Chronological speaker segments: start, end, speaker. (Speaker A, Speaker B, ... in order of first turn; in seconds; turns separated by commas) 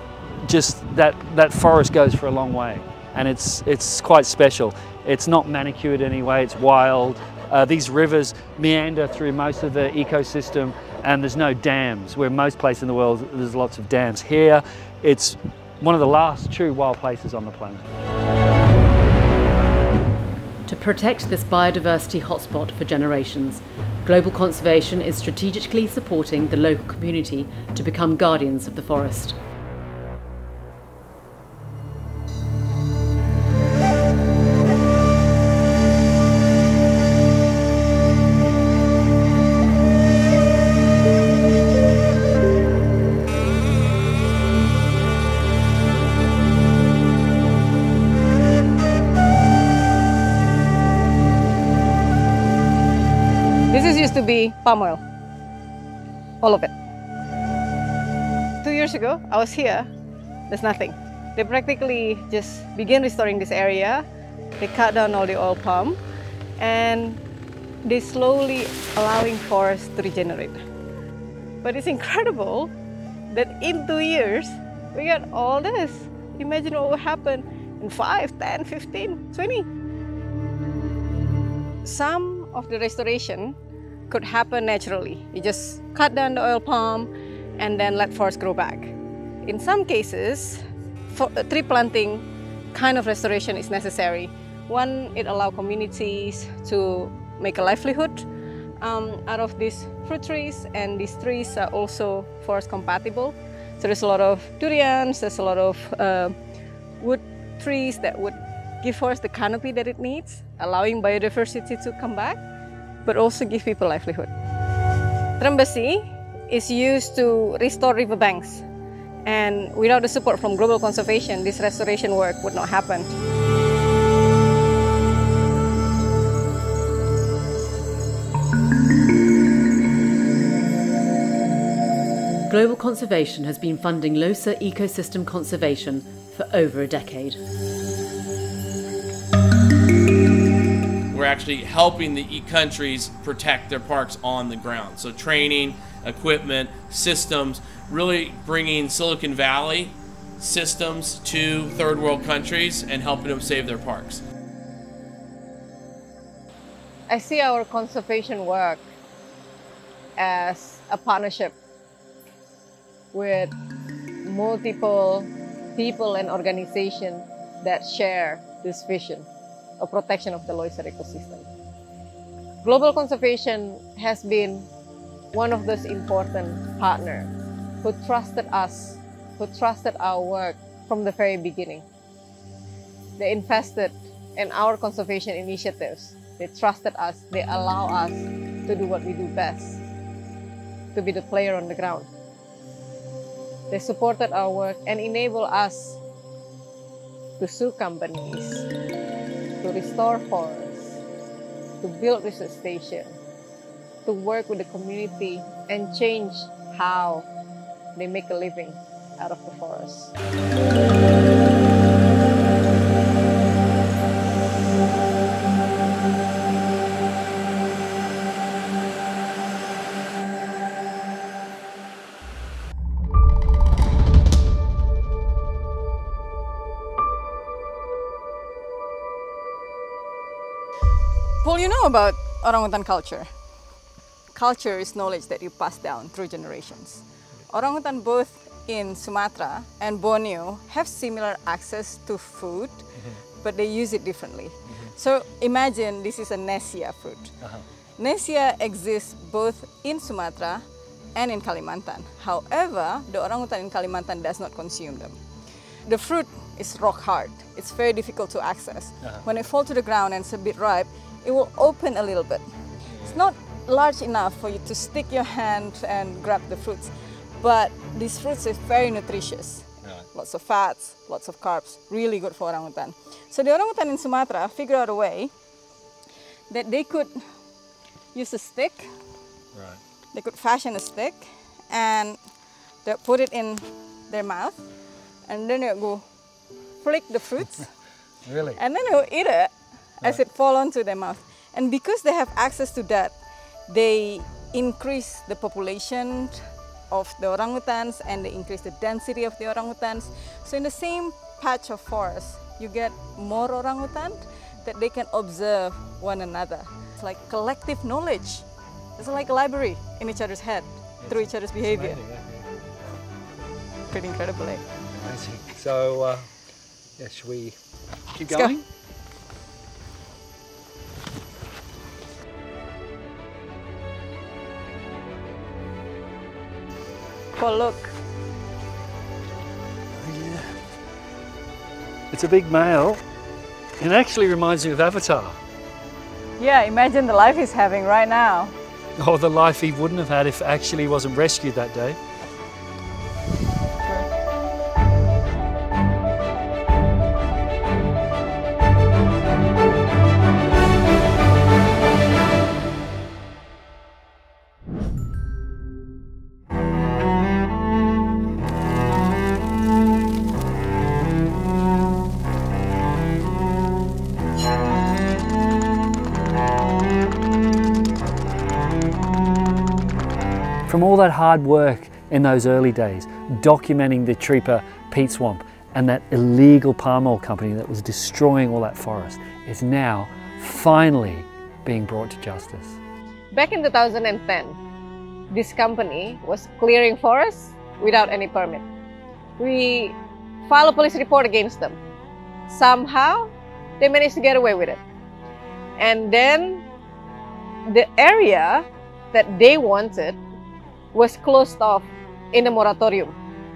Speaker A: 0.4-18.1, Speaker B: 20.7-29.4, Speaker C: 53.7-55.0, Speaker C: 56.4-56.7, Speaker C: 58.6-59.9, Speaker C: 60.5-64.0, Speaker C: 64.6-66.0, Speaker C: 66.6-67.2, Speaker C: 67.9-70.5, Speaker C: 71.6-72.7, Speaker C: 73.3-79.7, Speaker C: 81.8-83.5, Speaker C: 84.1-88.9, Speaker C: 89.5-90.6, Speaker C: 91.1-98.2, Speaker C: 98.8-106.3, Speaker C: 107.0-112.4, Speaker C: 113.1-114.3, Speaker C: 115.4-118.6, Speaker C: 119.3-123.1, Speaker B: 132.5-137.4, Speaker D: 141.1-154.2, Speaker C: 157.1-158.8, Speaker C: 160.2-161.6, Speaker C: 163.1-163.5, Speaker C: 164.2-169.3, Speaker C: 169.8-171.5, Speaker C: 172.6-174.7, Speaker C: 175.3-177.3, Speaker C: 177.8-181.9, Speaker C: 183.2-189.8, Speaker C: 190.9-192.1, Speaker C: 193.7-196.0, Speaker C: 197.4-198.7, Speaker C: 199.6-201.0, Speaker C: 201.8-203.2, Speaker C: 204.1-207.3, Speaker C: 208.0-210.1, Speaker E: 231.4-233.3, Speaker E: 234.3-242.8, Speaker E: 243.4-247.3, Speaker E: 248.0-250.6, Speaker E: 251.2-255.2, Speaker E: 255.9-262.4, Speaker E: 263.0-275.3, Speaker E: 276.5-277.2, Speaker E: 278.1-278.9, Speaker E: 280.1-282.2, Speaker E: 282.9-284.6, Speaker E: 285.3-286.0, Speaker E: 286.8-287.7, Speaker A: 288.2-288.6, Speaker E: 288.5-293.1, Speaker E: 293.7-308.4, Speaker E: 309.0-312.0, Speaker A: 311.1-312.4, Speaker E: 313.9-314.6, Speaker A: 315.0-316.3, Speaker A: 317.0-317.6, Speaker A: 318.1-318.6, Speaker E: 318.3-318.6, Speaker E: 327.4-327.9, Speaker A: 330.0-330.6, Speaker A: 332.1-333.0, Speaker A: 333.8-335.4, Speaker E: 336.4-338.5, Speaker A: 339.0-342.0, Speaker A: 370.7-382.8, Speaker C: 383.3-384.6, Speaker C: 385.3-388.6, Speaker C: 389.4-391.8, Speaker C: 392.5-394.8, Speaker C: 395.8-396.6, Speaker C: 397.7-400.2, Speaker C: 400.9-403.1